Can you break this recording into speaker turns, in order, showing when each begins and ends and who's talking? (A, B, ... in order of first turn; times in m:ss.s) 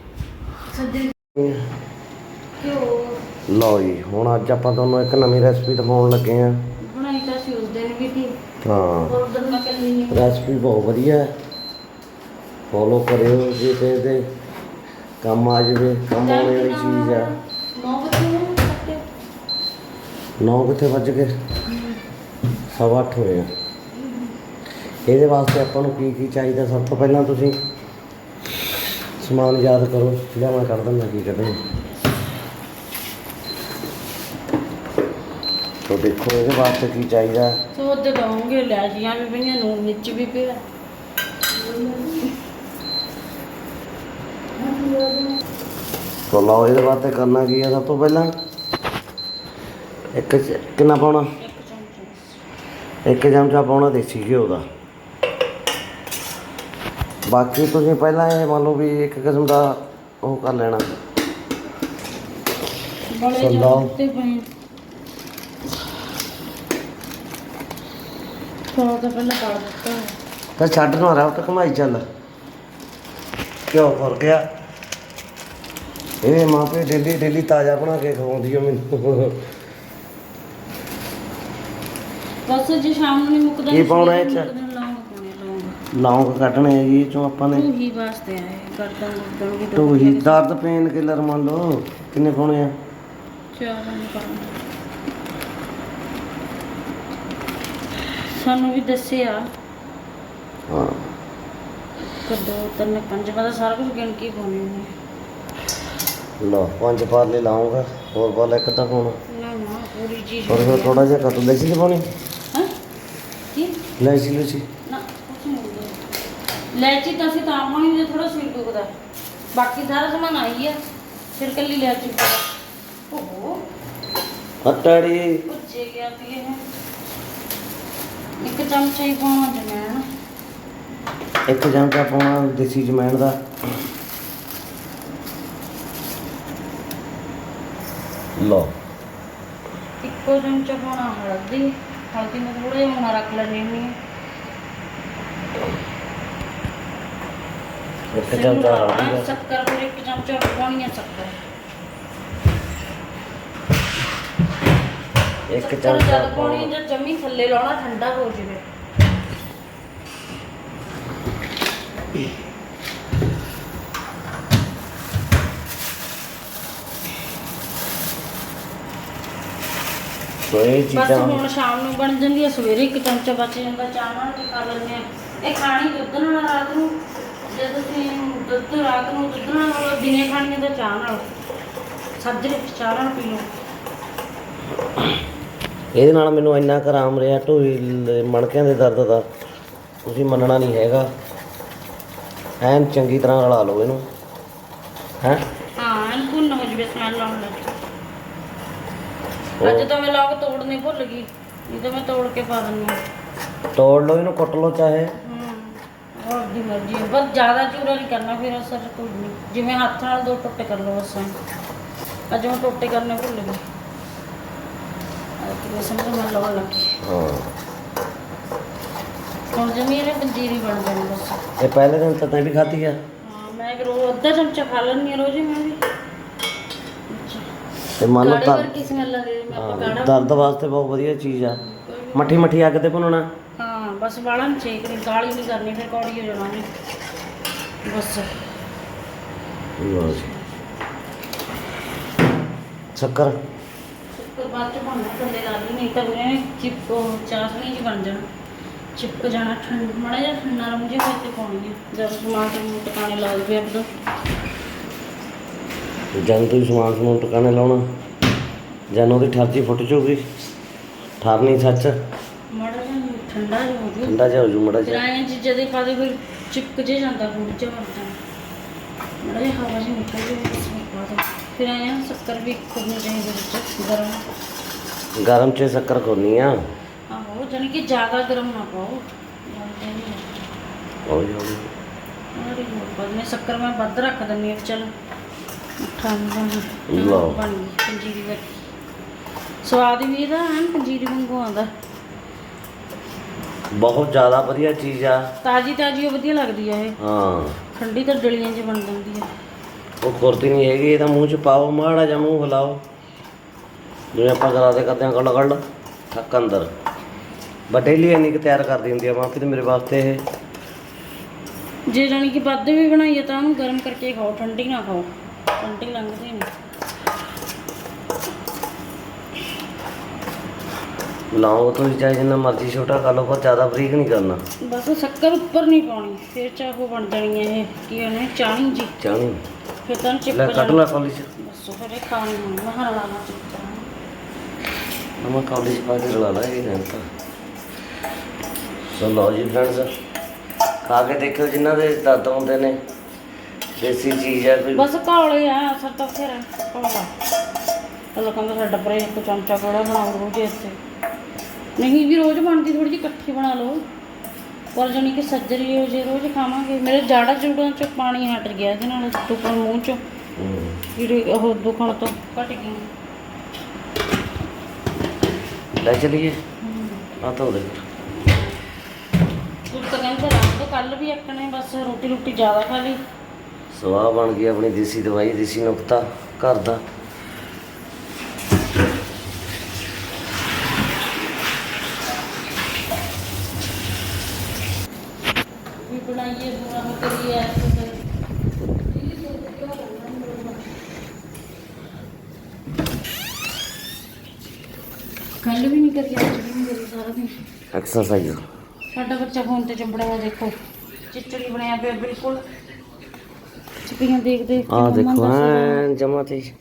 0:00.7-0:01.1 A
0:01.3-0:01.7 B
0:02.6-0:03.2 A
0:03.5-0:06.7 B
0:06.8-0:08.4 A
0:08.6-0:09.2 B
0:09.1-0:10.4 A
0:10.1-0:11.3 B
0:12.7-0:14.2 B
0:15.2-0:17.3 B
0:16.2-0:19.0 A
0:20.4-0:21.3 B
0:22.7-0:23.5 B
0:25.0-0:27.6 B
0:29.2-0:31.6 B
0:35.8-0:37.6 B
0:37.7-0:40.6 A
0:41.5-0:42.3 A
0:44.6-0:45.3 A
0:46.3-0:48.3 B
0:50.1-0:51.3 B
0:51.4-0:52.4 A
0:53.0-0:54.6 B
0:57.3-1:00.9 B
1:03.1-1:04.5 A
1:03.3-1:03.9 B
1:08.7-1:10.2 A
1:10.6-1:12.0 B
1:13.7-1:14.4 B
1:16.2-1:19.5 B
1:22.5-1:25.8 A
1:23.7-1:24.5 B
1:25.9-1:27.7 B
1:27.5-1:30.6 A
1:29.7-1:32.7 B
1:33.5-1:34.6 A
1:38.2-1:39.5 A
1:40.7-1:41.0 B
1:42.2-1:44.9 A
1:46.4-1:49.2 B
1:49.3-1:51.4 A
1:50.5-1:52.1 B
1:53.5-1:53.8 A
1:54.0-1:54.6 B
1:54.8-1:56.0 A
1:56.7-1:59.0 A
1:59.5-2:00.8 A
2:01.3-2:02.5 A
2:03.1-2:03.6 A
2:04.6-2:05.4 B
2:05.4-2:06.6 A
2:08.4-2:10.0 A
2:11.5-2:13.3 B
2:18.4-2:18.7 B
2:20.0-2:24.0 A
2:28.1-2:29.3 B
2:28.2-2:31.4 A
2:35.5-2:36.7 B
2:35.6-2:38.6 A
2:50.5-2:51.4 B
2:50.9-3:01.2 A
3:02.2-3:03.5 A
3:05.9-3:09.3 B
3:10.0-3:11.1 B
3:12.6-3:14.0 B
3:15.8-3:17.8 A
3:19.6-3:23.0 A
3:19.6-3:19.9 B
3:23.7-3:25.1 B
3:25.2-3:31.3 A
3:32.3-3:33.6 A
3:35.4-3:37.0 A
3:37.0-3:37.5 B
3:39.5-3:41.4 A
3:41.6-3:43.0 B
3:43.2-3:45.8 A
3:47.1-3:47.5 A
3:48.0-3:48.7 B
3:48.1-3:50.5 A
3:49.5-3:51.6 B
3:51.5-3:52.4 A
3:52.1-3:53.3 B
3:53.6-3:56.7 A
3:57.8-3:58.4 A
3:59.8-4:00.3 B
4:00.0-4:00.4 A
4:02.9-4:03.4 B
4:04.1-4:08.3 A
4:09.0-4:13.9 A
4:16.1-4:17.8 B
4:18.9-4:20.3 B
4:21.2-4:21.9 B
4:22.5-4:24.2 A
4:24.0-4:25.0 B
4:24.8-4:28.2 A
4:29.2-4:34.2 A
4:35.2-4:36.6 B
4:37.1-4:40.3 A
4:41.0-4:41.7 B
4:42.3-4:44.9 A
4:45.8-4:48.5 A
4:46.9-4:47.4 B
4:49.6-4:51.7 A
4:53.7-4:55.3 B
4:55.4-4:57.0 A
4:57.0-4:57.6 B
4:57.7-4:59.3 A
5:00.0-5:02.8 B
5:04.1-5:06.7 B
5:07.7-5:10.2 B
5:11.9-5:16.5 A
5:21.3-5:24.4 B
5:24.6-5:29.0 A
5:29.0-5:29.4 B
5:29.8-5:33.9 A
5:30.3-5:31.3 B
5:35.2-5:37.0 B
5:38.8-5:39.9 B
5:40.8-5:42.8 B
5:43.8-5:44.9 B
5:44.7-5:47.1 A
5:48.1-5:50.8 A
5:51.8-5:53.8 A
5:54.7-6:00.0 A
6:00.4-6:00.8 B
6:00.9-6:02.8 A
6:05.8-6:06.4 B
6:06.6-6:07.1 A
6:07.2-6:07.8 B
6:09.7-6:13.0 A
6:13.7-6:16.8 B
6:25.8-6:28.0 A
6:28.9-6:30.7 A
6:35.4-6:37.4 A
6:37.7-6:38.4 B
6:38.9-6:40.6 A
6:41.1-6:42.4 A
6:43.8-6:45.8 A
6:44.7-6:46.5 B